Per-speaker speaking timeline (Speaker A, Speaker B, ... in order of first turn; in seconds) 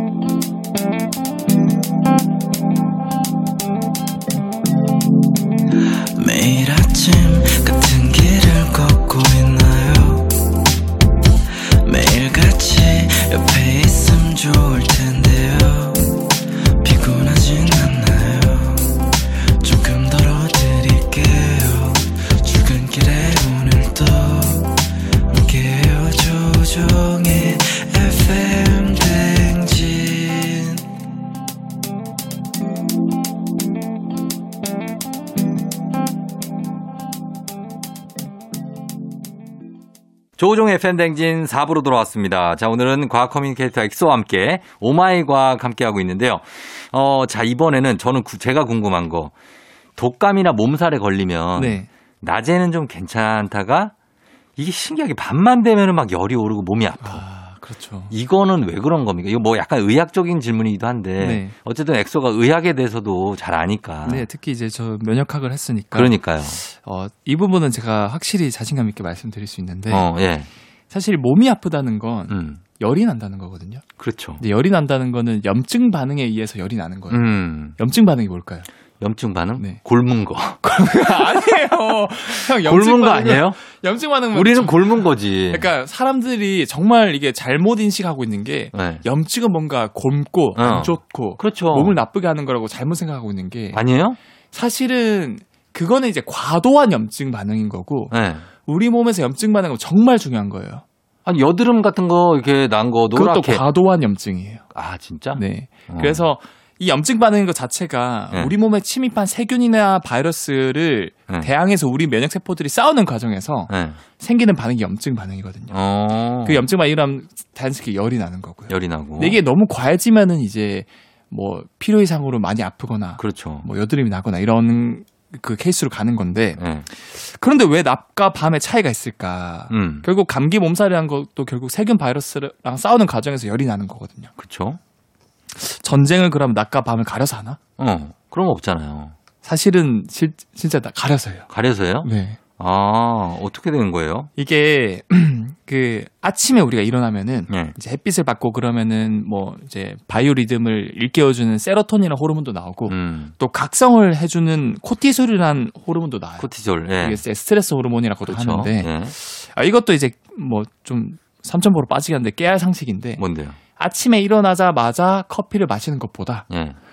Speaker A: 6.1-10.6, 11.8-30.9
Speaker B: 40.4-49.3, 50.0-53.9, 54.6-57.2, 58.1-64.2, 65.9-66.6, 69.9-70.5, 72.3-72.6, 74.0-74.4, 77.1-77.8, 79.0-80.6, 82.4-83.6, 84.3-85.7, 88.7-89.0, 90.5-92.0, 93.7-94.2, 98.1-98.5, 101.2-103.6, 104.7-106.2, 113.7-114.0, 115.7-116.6, 118.7-119.4, 123.2-123.7, 126.6-126.9, 129.7-130.1, 134.4-134.8, 137.8-139.1, 141.5-144.3, 147.5-147.7, 152.9-153.3, 156.4-157.2, 158.2-159.1, 163.2-163.6, 166.5-166.8
Speaker C: 51.5-51.9, 57.0-58.1, 61.2-61.5, 64.0-70.1, 70.9-73.8, 74.4-78.7, 80.6-93.8, 94.5-100.8, 103.1-104.7, 105.3-115.8, 116.4-134.3, 135.5-137.6, 139.4-141.5, 142.0-142.4, 144.4-156.5, 157.0-163.2, 163.8-166.4